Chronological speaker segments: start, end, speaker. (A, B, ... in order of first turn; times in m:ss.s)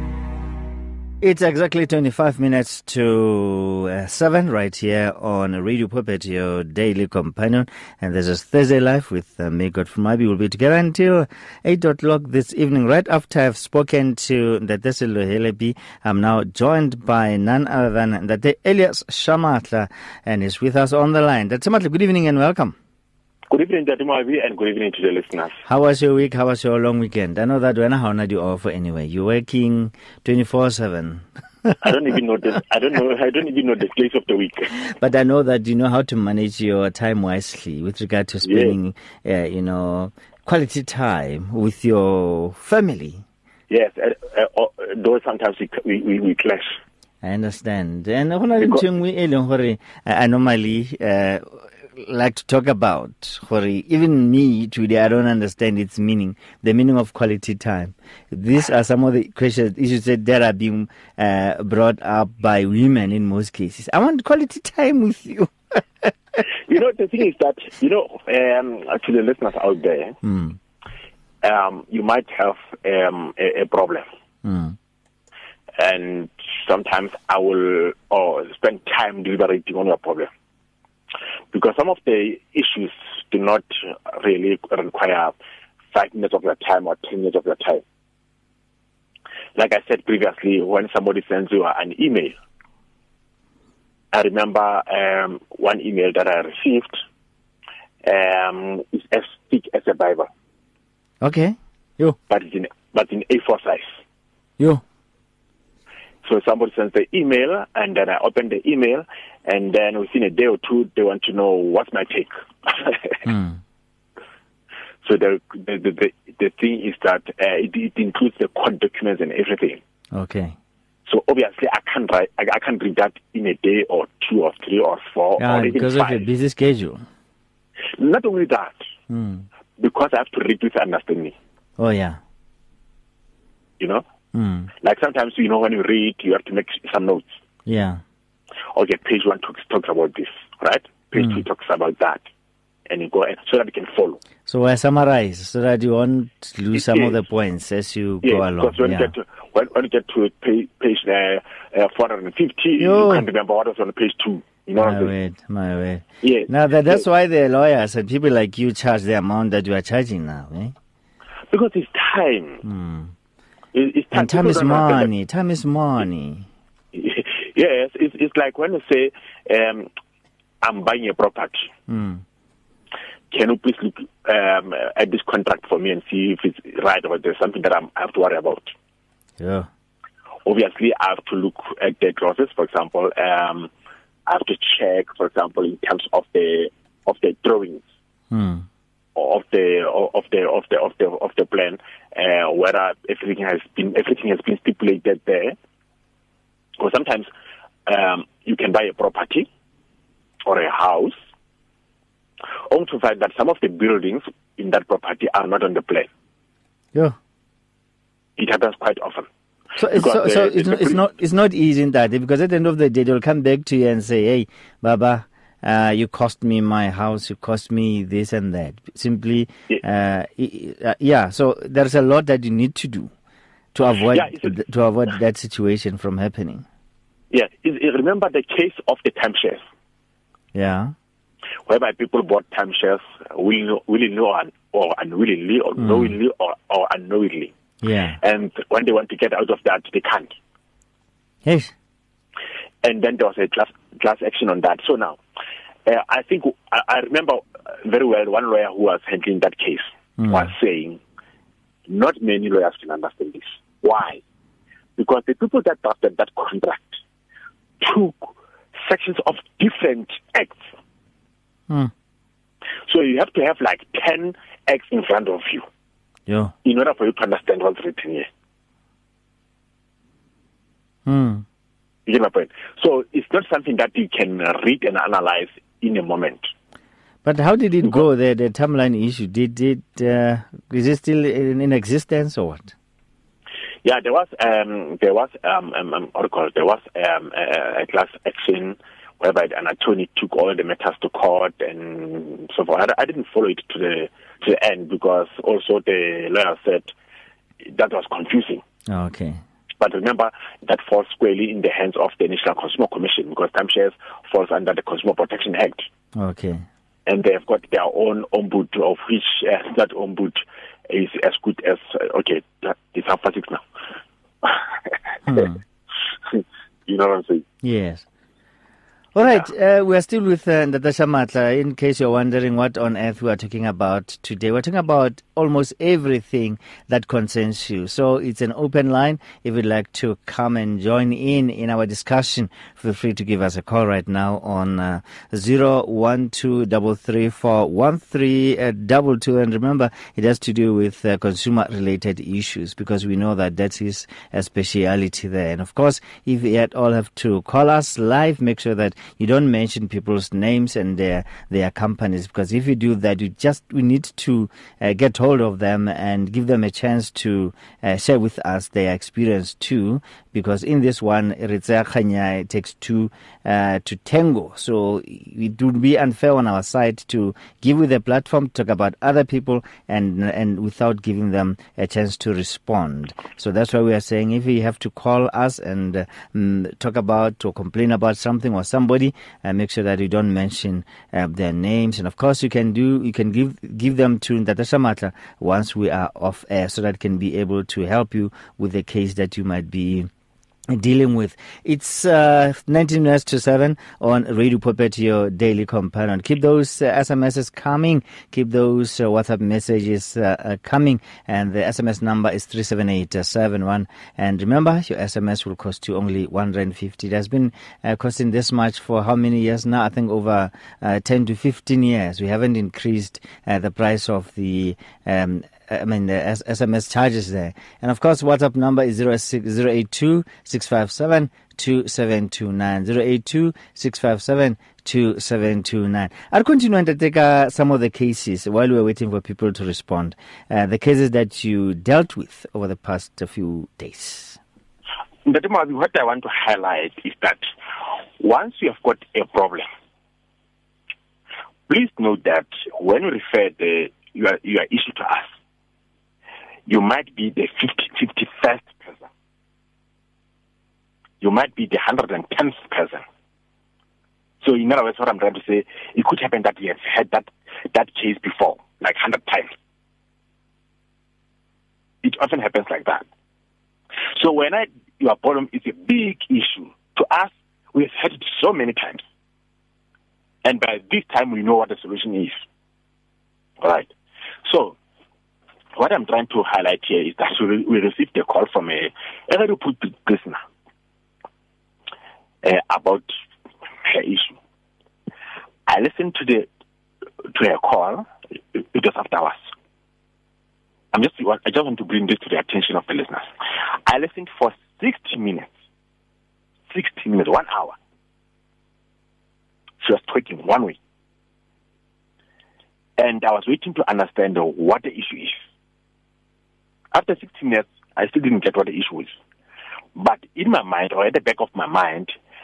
0:01.2-0:22.8 A
0:23.5-0:25.6 B
0:25.7-0:31.8 A
0:31.7-0:34.7 B
0:34.8-0:43.2 A
0:38.4-0:38.8 B
0:43.7-0:46.8 B
0:47.2-1:06.4 A
0:48.6-0:48.8 B
1:06.7-1:10.2 B
1:10.2-1:10.6 A
1:11.4-1:14.1 B
1:14.4-1:14.8 A
1:15.8-1:20.3 B
1:21.5-1:25.3 B
1:25.9-1:27.8 B
1:29.6-1:32.4 B
1:34.1-1:37.0 B
1:38.0-1:40.3 B
1:41.2-1:42.2 A
1:42.3-1:44.0 B
1:46.2-1:53.2 B
1:53.2-1:53.6 A
1:55.0-1:59.8 B
2:00.1-2:00.6 A
2:01.1-2:06.2 B
2:05.4-2:07.0 A
2:08.0-2:08.8 B
2:09.1-2:09.5 A
2:09.8-2:11.4 B
2:11.8-2:12.2 A
2:13.8-2:14.0 B
2:14.3-2:14.7 A
2:14.8-2:17.4 B
2:17.7-2:18.0 A
2:18.7-2:22.2 B
2:21.2-2:21.4 A
2:22.9-2:24.2 B
2:24.5-2:29.1 A
2:26.8-2:27.2 B
2:28.2-2:35.1 B
2:32.8-2:33.3 A
2:34.8-2:40.8 A
2:36.2-2:37.0 B
2:41.5-2:42.6 B
2:42.6-2:43.1 A
2:43.7-2:45.1 B
2:44.1-2:46.5 A
2:46.9-2:49.9 B
2:50.6-2:51.7 B
2:51.9-2:52.2 A
2:53.3-2:58.7 B
2:59.4-2:59.7 A
3:00.4-3:03.7 B
3:04.3-3:07.8 B
3:08.3-3:08.7 A
3:09.2-3:15.6 B
3:16.8-3:17.3 B
3:17.9-3:19.5 B
3:20.4-3:21.2 B
3:22.7-3:26.1 B
3:28.4-3:29.3 B
3:29.8-3:43.1 A
3:29.9-3:31.0 B
3:43.7-3:46.6 A
3:44.1-3:44.6 B
3:47.3-3:49.6 B
3:50.5-3:50.9 A
3:51.7-3:57.5 B
3:55.8-3:56.1 A
3:57.8-3:58.2 A
3:58.2-4:00.4 B
4:01.4-4:01.7 A
4:02.8-4:05.2 B
4:05.9-4:11.0 B
4:10.2-4:10.5 A
4:11.9-4:14.2 B
4:15.0-4:17.0 B
4:17.8-4:20.7 B
4:22.9-4:25.7 B
4:26.3-4:26.5 A
4:26.6-4:28.3 B
4:31.1-4:31.4 A
4:32.1-4:36.5 B
4:37.2-4:42.7 A
4:43.8-4:56.9 B
4:57.6-4:58.6 B
4:58.9-4:59.4 A
4:59.8-5:05.9 B
5:06.2-5:06.6 A
5:07.1-5:13.6 B
5:15.3-5:15.6 A
5:16.3-5:17.4 B
5:17.6-5:18.0 A
5:19.2-6:30.1 A
6:30.7-7:14.4 A
7:15.3-7:17.4 B
7:18.2-7:19.7 B
7:21.7-7:25.3 B
7:26.7-7:29.1 B
7:31.2-7:33.0 B
7:34.4-7:39.5 B
7:42.0-7:43.0 B
7:44.2-7:49.0 B
7:50.4-7:52.4 B
7:53.6-7:53.9 B
7:54.4-7:54.8 B
7:55.8-8:00.4 B
8:02.4-8:03.1 B
8:03.8-8:04.4 B
8:05.7-8:06.5 B
8:07.3-8:09.5 B
8:10.9-8:13.3 B
8:13.9-8:15.5 B
8:16.7-8:17.8 B
8:19.8-8:20.8 B
8:23.0-8:25.4 B
8:26.9-8:29.2 B
8:30.0-8:32.1 B